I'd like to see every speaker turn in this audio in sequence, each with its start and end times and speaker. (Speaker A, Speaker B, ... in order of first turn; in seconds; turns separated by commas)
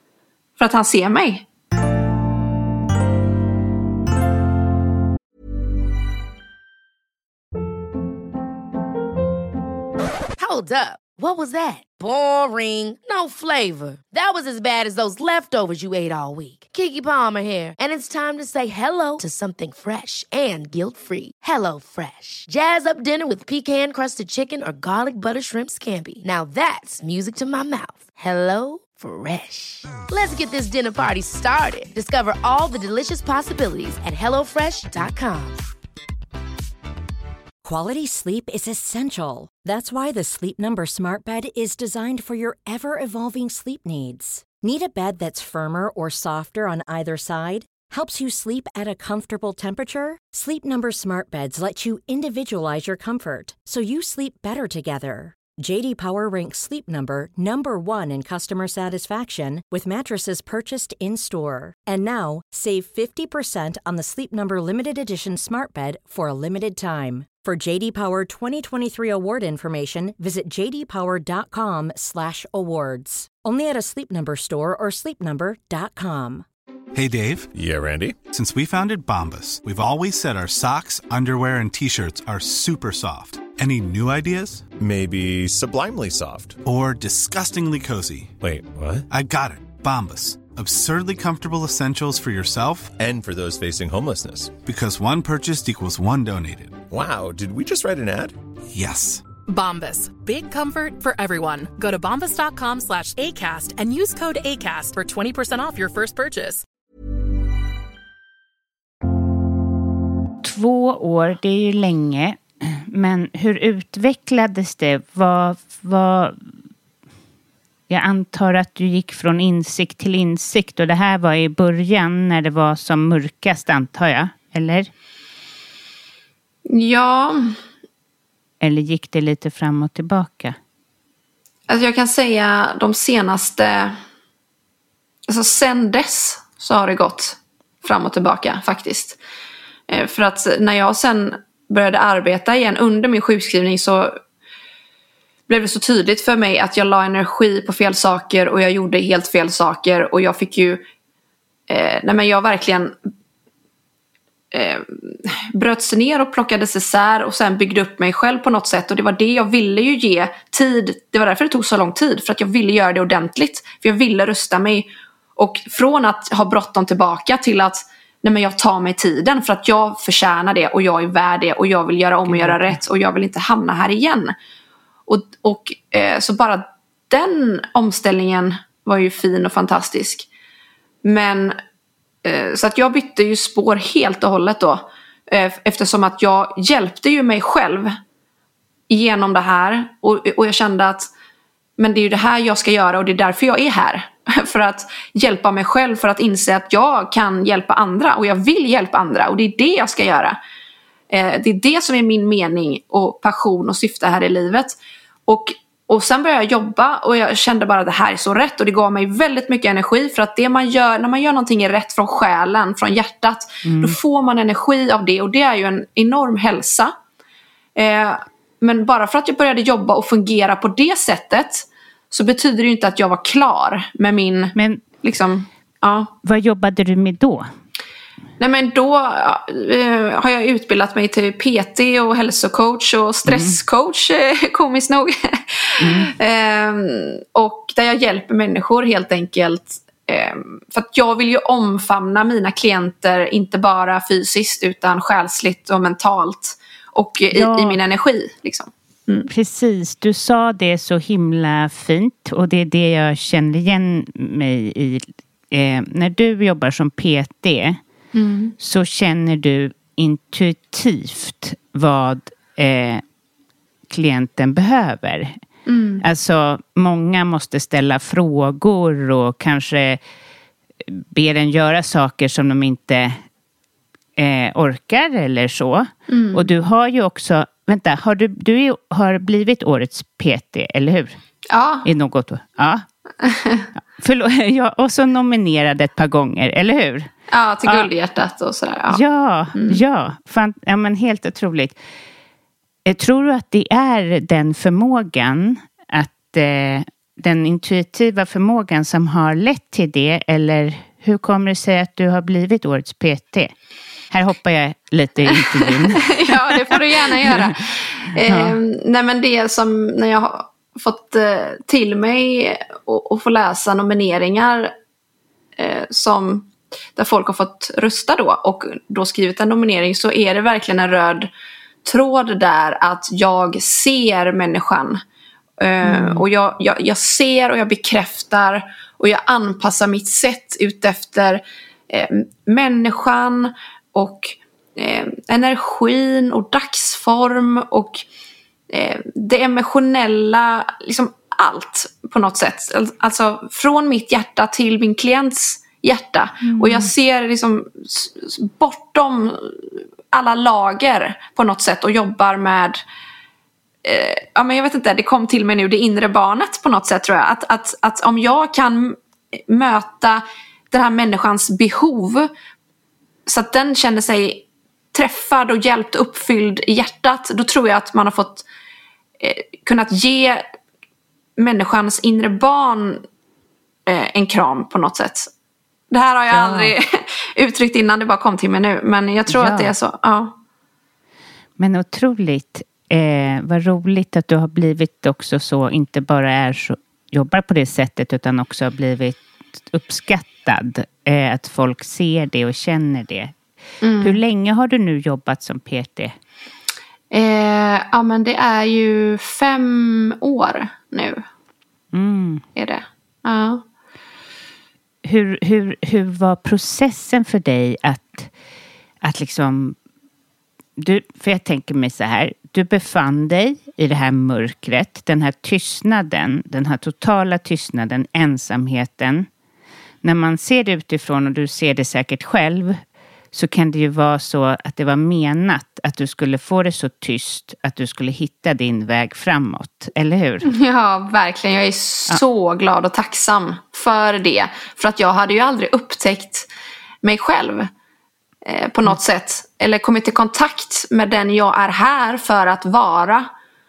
Speaker A: 0.6-1.5, Speaker B: 10.4-35.6, Speaker C: 37.6-76.5, Speaker D: 76.9-77.5, Speaker E: 77.5-78.2, Speaker D: 78.3-84.7, Speaker E: 84.8-86.6, Speaker D: 86.6-88.3, Speaker E: 88.4-89.1, Speaker D: 89.1-93.0, Speaker E: 93.0-94.6, Speaker D: 94.6-96.9, Speaker E: 96.9-98.4, Speaker D: 98.7-99.2, Speaker F: 99.5-106.6, Speaker G: 110.4-116.4, Speaker G: 117.9-124.9, Speaker A: 126.7-127.6, Speaker G: 128.6-130.6, Speaker A: 131.7-134.0, Speaker A: 135.3-139.2, Speaker A: 139.9-144.2, Speaker A: 145.5-150.8, Speaker A: 151.7-152.9, Speaker A: 154.5-174.3, Speaker G: 172.2-172.8, Speaker A: 175.1-180.3, Speaker A: 181.0-181.6, Speaker A: 182.2-188.0, Speaker A: 188.9-191.1, Speaker A: 191.8-200.4, Speaker A: 201.1-216.9, Speaker G: 213.7-214.0, Speaker A: 217.8-226.1, Speaker G: 224.6-224.8, Speaker G: 226.2-227.5, Speaker A: 228.4-249.3, Speaker G: 233.3-233.6, Speaker G: 235.8-236.1, Speaker G: 247.3-247.8, Speaker G: 249.3-257.8, Speaker A: 258.1-258.6, Speaker G: 258.6-263.0, Speaker G: 263.9-265.4, Speaker A: 265.7-266.0, Speaker G: 266.0-270.0, Speaker G: 270.9-273.2, Speaker G: 274.2-281.2, Speaker A: 276.1-276.5, Speaker A: 281.5-281.9, Speaker G: 281.9-282.9, Speaker A: 283.2-283.7, Speaker G: 284.0-287.1, Speaker A: 287.3-289.0, Speaker G: 288.9-291.8, Speaker A: 289.5-289.8, Speaker G: 292.9-303.5, Speaker G: 304.1-307.5, Speaker A: 305.3-314.7, Speaker G: 308.2-308.6, Speaker A: 315.6-321.3, Speaker A: 321.9-325.0, Speaker A: 325.6-338.0, Speaker G: 325.8-326.2, Speaker A: 338.7-352.8, Speaker G: 346.4-346.9, Speaker A: 353.8-362.3, Speaker A: 363.3-368.5, Speaker A: 369.2-370.4, Speaker A: 371.4-373.0, Speaker A: 373.9-375.3, Speaker A: 375.9-380.4, Speaker G: 376.3-376.8, Speaker G: 379.3-379.7, Speaker G: 381.6-393.4, Speaker A: 393.8-394.2, Speaker G: 394.0-396.1, Speaker A: 397.1-401.2, Speaker G: 401.9-402.4, Speaker A: 402.6-403.6, Speaker G: 405.0-408.3, Speaker G: 409.0-409.8, Speaker G: 410.8-419.3, Speaker G: 420.0-422.8, Speaker G: 423.3-430.5, Speaker A: 430.4-436.5, Speaker A: 437.0-437.7, Speaker A: 438.4-443.3